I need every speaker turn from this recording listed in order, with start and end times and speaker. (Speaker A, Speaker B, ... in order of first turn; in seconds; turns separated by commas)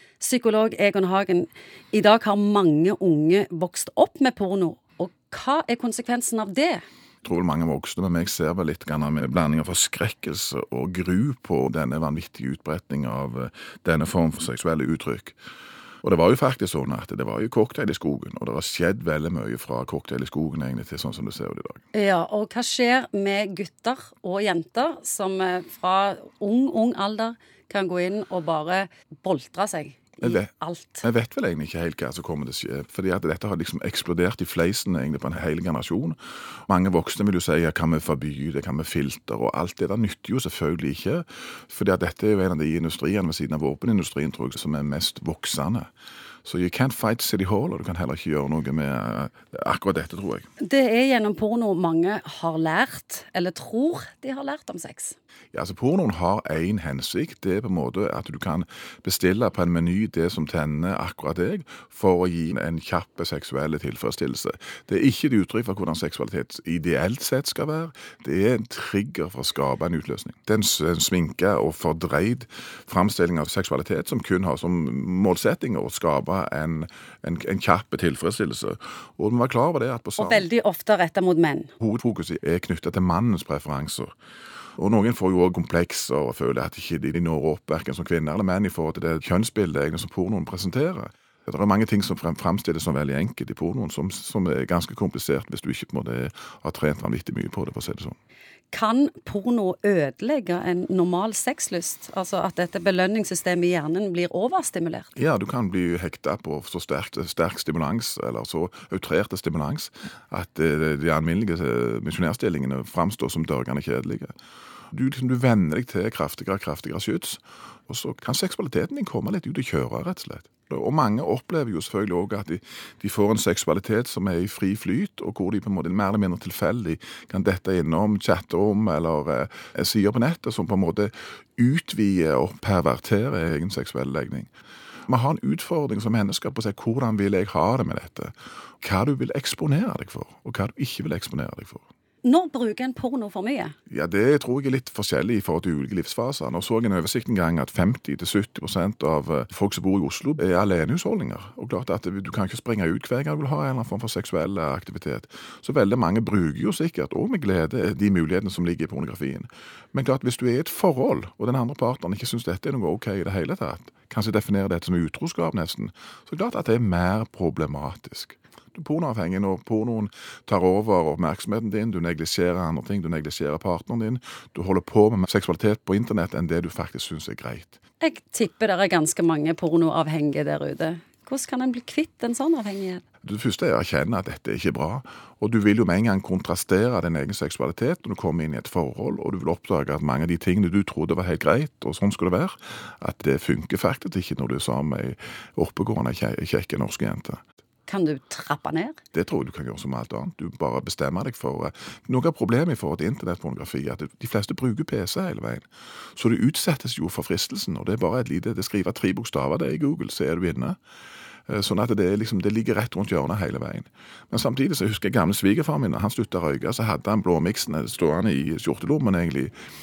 Speaker A: 0.2-6.8, Speaker B: 7.2-15.3, Speaker B: 16.0-21.8, Speaker A: 21.9-31.1, Speaker B: 30.2-30.5, Speaker B: 31.0-36.1, Speaker B: 36.7-45.9, Speaker B: 46.4-50.5, Speaker A: 50.6-55.1, Speaker B: 55.5-80.5, Speaker A: 80.2-81.7, Speaker B: 81.8-84.1, Speaker B: 84.8-98.1, Speaker A: 98.7-105.2, Speaker B: 105.2-114.3, Speaker B: 114.9-134.5, Speaker B: 135.1-141.8, Speaker A: 142.2-143.7, Speaker B: 143.9-177.8, Speaker A: 178.0-183.0, Speaker B: 183.2-197.4, Speaker A: 197.9-199.0, Speaker B: 199.1-205.6, Speaker B: 206.2-210.8, Speaker B: 211.5-219.5